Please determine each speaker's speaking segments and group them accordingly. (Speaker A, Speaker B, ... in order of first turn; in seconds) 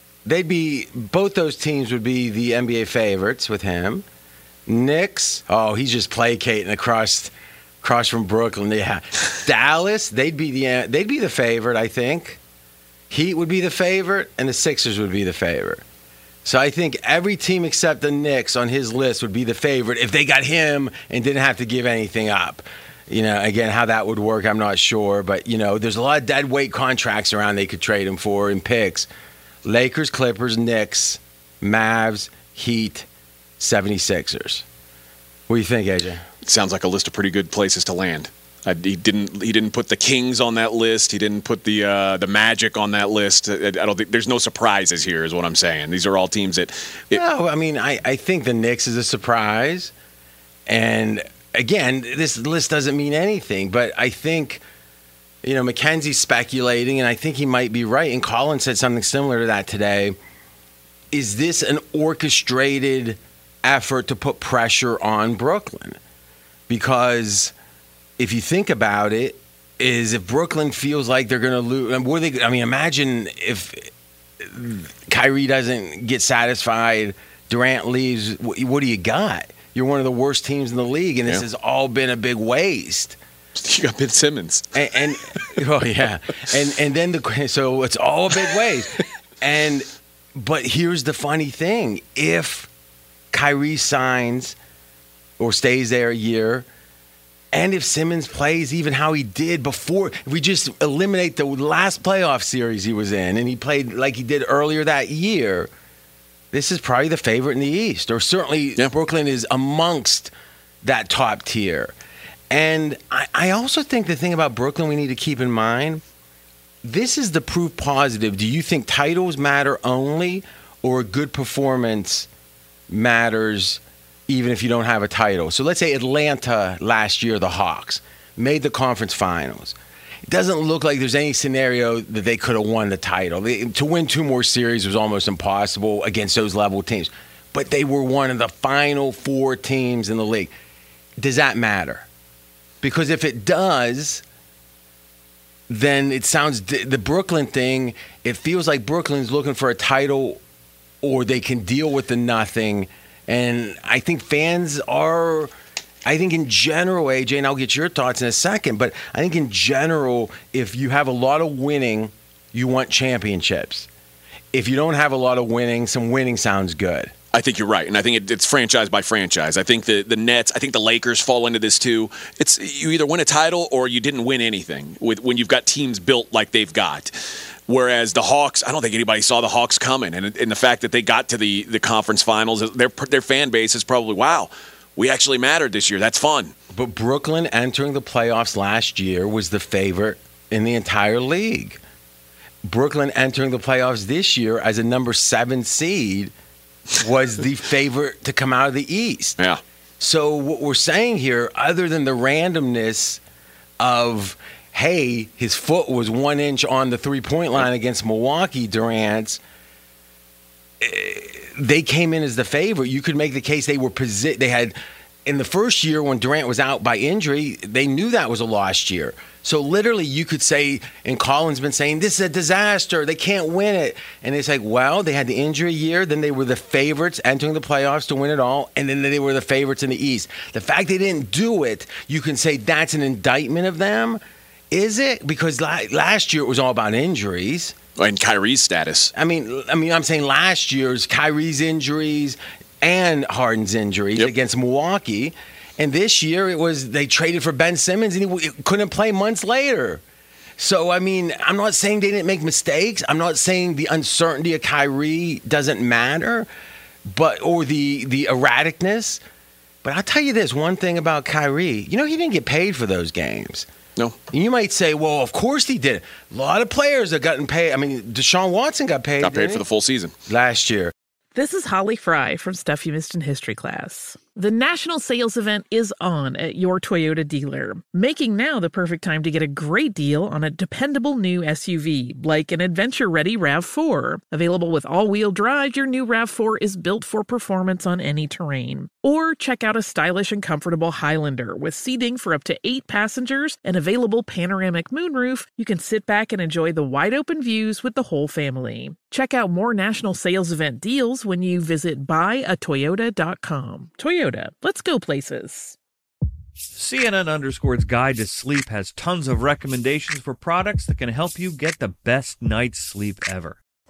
Speaker A: 0.2-4.0, 4.7-12.4, 13.1-15.8, 16.4-29.1, 29.6-33.1, 33.6-34.6, 35.5-36.2, 47.1-49.9, 50.7-54.6, 55.4-60.1, 61.1-66.0, 66.7-67.5, 68.2-73.9, 74.4-83.2, 84.7-92.7, 93.3-94.5, 95.4-96.7, 97.5-105.7, 106.5-110.3, 110.8-111.9, 112.5-116.0, 116.8-122.3, 122.9-129.7, 130.3-140.5, 141.2-142.1, 142.8-144.2, 145.7-150.4, 151.0-155.5, 156.1-163.9, 164.5-167.1, 186.7-191.8, 192.6-196.3, 197.0-199.4, 200.0-203.2, 203.8-209.4, 210.8-234.2, 234.7-237.8, 239.1-250.0, 250.6-256.5, 257.1-259.2, 259.8-263.7, 264.3-269.6, 270.3-270.9
Speaker B: 36.4-47.2, 83.5-84.7, 167.3-177.2, 177.7-186.5, 238.0-239.1, 269.2-270.1
Speaker C: 271.3-305.8
Speaker D: 306.7-313.6